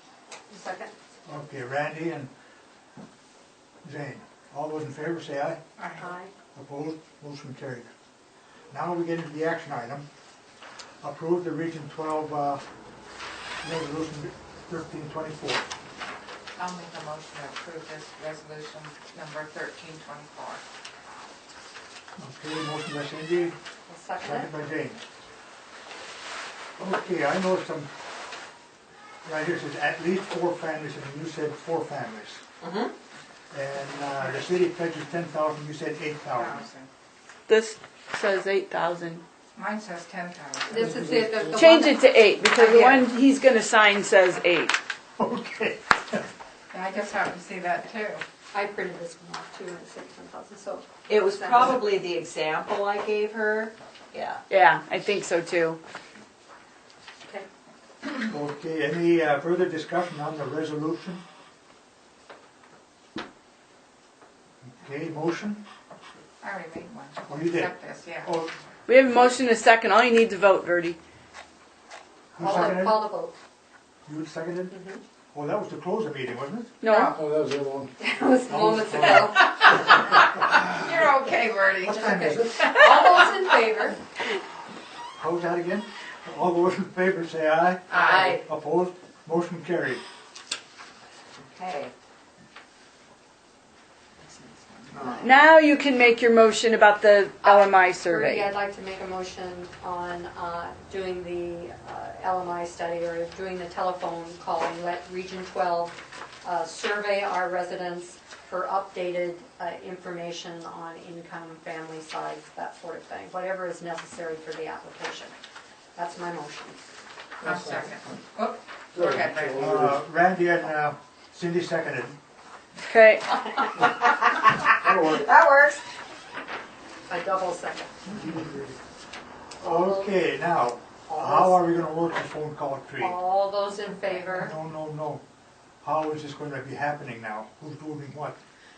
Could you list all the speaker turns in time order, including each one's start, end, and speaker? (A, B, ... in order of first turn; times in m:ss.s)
0:00.5-0:00.9 A
0:01.3-0:02.3 B
0:03.8-0:05.6 B
0:05.8-0:06.1 C
0:06.0-0:06.3 A
0:06.6-0:07.9 B
0:08.7-0:10.0 B
0:11.0-0:12.6 B
0:13.6-0:15.7 B
0:16.6-0:20.6 C
0:22.2-0:23.6 B
0:23.9-0:24.5 A
0:24.2-0:25.0 B
0:26.8-0:27.9 B
0:29.2-0:32.4 B
0:32.6-0:32.9 D
0:33.5-0:36.6 B
0:36.3-0:36.9 C
0:37.5-0:39.2 E
0:39.6-0:41.2 C
0:40.7-0:42.0 A
0:40.8-0:41.6 F
0:41.6-0:44.8 E
0:42.7-0:43.0 A
0:45.2-0:46.2 B
0:46.7-0:48.2 C
0:48.5-0:51.8 A
0:51.1-0:54.4 D
0:54.5-0:55.8 E
0:58.1-1:01.2 B
1:04.6-1:05.6 B
1:06.4-1:08.4 C
1:07.3-1:08.5 B
1:08.9-1:11.0 E
1:12.4-1:13.1 B
1:12.4-1:13.3 A
1:14.1-1:14.8 B
1:14.7-1:15.0 A
1:15.3-1:16.7 B
1:16.8-1:17.2 E
1:16.9-1:17.3 C
1:17.2-1:17.9 F
1:18.0-1:20.4 A
1:18.5-1:19.5 B
1:20.5-1:20.9 B
1:20.5-1:22.7 C
1:21.8-1:23.1 B
1:22.1-1:24.0 A
1:25.2-1:30.0 B
1:27.9-1:28.4 C
1:27.9-1:28.4 A
1:31.4-1:31.9 D
1:34.2-1:35.3 D
1:35.2-1:38.5 E
1:37.4-1:55.3 A
1:56.0-1:56.8 A
1:57.4-1:59.7 C
1:57.4-1:57.9 F
1:58.9-2:00.0 F
1:59.5-2:02.2 B
2:02.8-2:03.3 E
2:03.5-2:05.8 D
2:04.8-2:05.2 F
2:07.1-2:08.1 A
2:08.1-2:08.8 B
2:09.6-2:10.1 A
2:09.6-2:13.2 B
2:11.1-2:11.6 A
2:13.0-2:14.6 A
2:14.3-2:15.2 B
2:15.8-2:18.4 B